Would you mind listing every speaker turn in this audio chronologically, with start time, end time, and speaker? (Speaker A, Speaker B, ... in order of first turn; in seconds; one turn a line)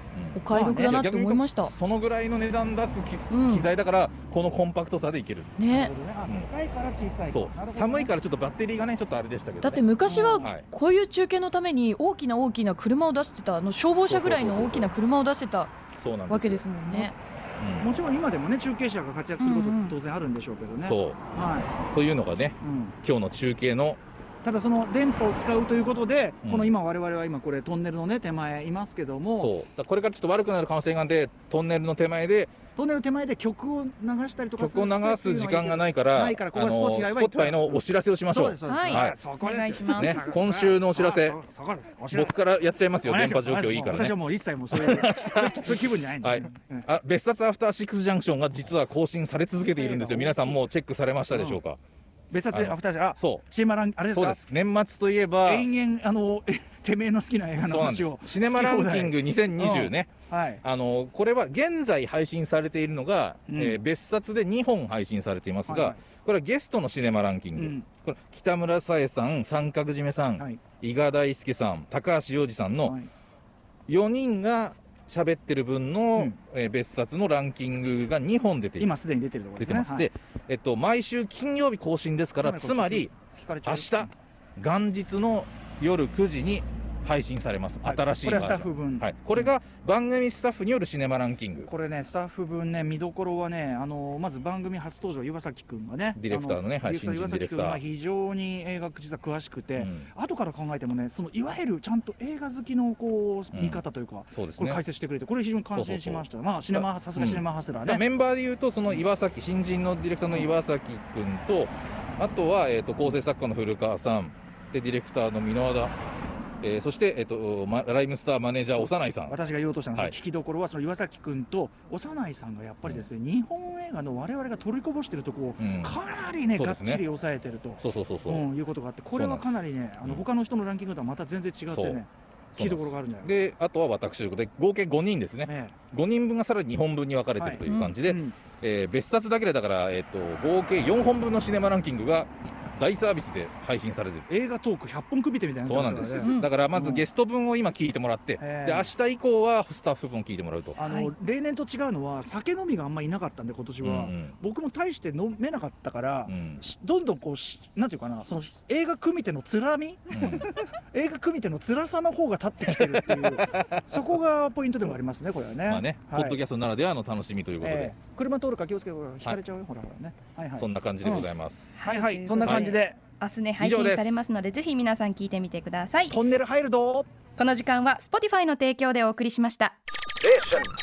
Speaker A: 0.1-5.5
Speaker B: 0.3-1.7
Speaker C: 0.5-1.0
Speaker B: 3.3-3.7
Speaker B: 5.6-5.9
Speaker C: 5.7-8.1
Speaker A: 7.3-10.7
Speaker B: 9.6-15.7
Speaker C: 10.1-10.5
Speaker A: 14.1-14.9
Speaker A: 15.9-17.9
Speaker B: 16.3-17.1
Speaker C: 17.8-21.7
Speaker B: 19.4-19.9
Speaker A: 20.8-21.2
Speaker A: 21.9-24.0
Speaker C: 22.6-23.0
Speaker C: 24.4-29.5
Speaker A: 26.4-26.8
Speaker A: 29.4-32.5
Speaker C: 32.8-42.4
Speaker A: 34.6-39.3
Speaker D: 38.7-40.3
Speaker A: 39.9-41.4
Speaker A: 42.1-44.2
Speaker C: 43.0-46.9
Speaker A: 44.7-51.8
Speaker C: 49.7-50.6
Speaker C: 51.3-51.6
Speaker C: 52.3-54.4
Speaker A: 52.5-53.5
Speaker A: 54.1-55.7
Speaker C: 55.4-60.6
Speaker A: 57.6-73.0
Speaker C: 63.5-63.8
Speaker C: 65.7-66.0
Speaker C: 67.6-67.9
Speaker A: 73.9-78.9
Speaker C: 78.8-80.1
Speaker A: 79.6-83.1
Speaker C: 82.4-84.2
Speaker A: 83.7-91.7
Speaker C: 87.8-89.5
Speaker C: 91.6-108.0
Speaker A: 96.2-97.8
Speaker A: 99.8-100.1
Speaker A: 103.5-104.8
Speaker A: 105.7-116.0
Speaker A: 116.6-119.4
Speaker C: 118.8-133.3
Speaker A: 125.6-126.0
Speaker A: 126.5-127.0
Speaker A: 127.8-128.4
Speaker A: 129.1-129.5
Speaker A: 131.7-132.0
Speaker A: 132.6-144.3
Speaker C: 135.5-135.8
Speaker C: 137.4-138.4
Speaker D: 137.6-137.9
Speaker C: 144.3-147.1
Speaker A: 145.6-151.0
Speaker C: 148.4-148.9
Speaker C: 150.8-166.4
Speaker A: 153.8-154.3
Speaker A: 156.3-156.6
Speaker A: 160.1-160.6
Speaker A: 162.8-163.8
Speaker A: 165.7-167.9
Speaker C: 167.6-171.3
Speaker A: 170.6-171.8
Speaker D: 171.8-176.2
Speaker C: 171.8-173.0
Speaker A: 172.4-172.8
Speaker A: 173.6-174.2
Speaker C: 176.1-177.1
Speaker D: 177.4-179.8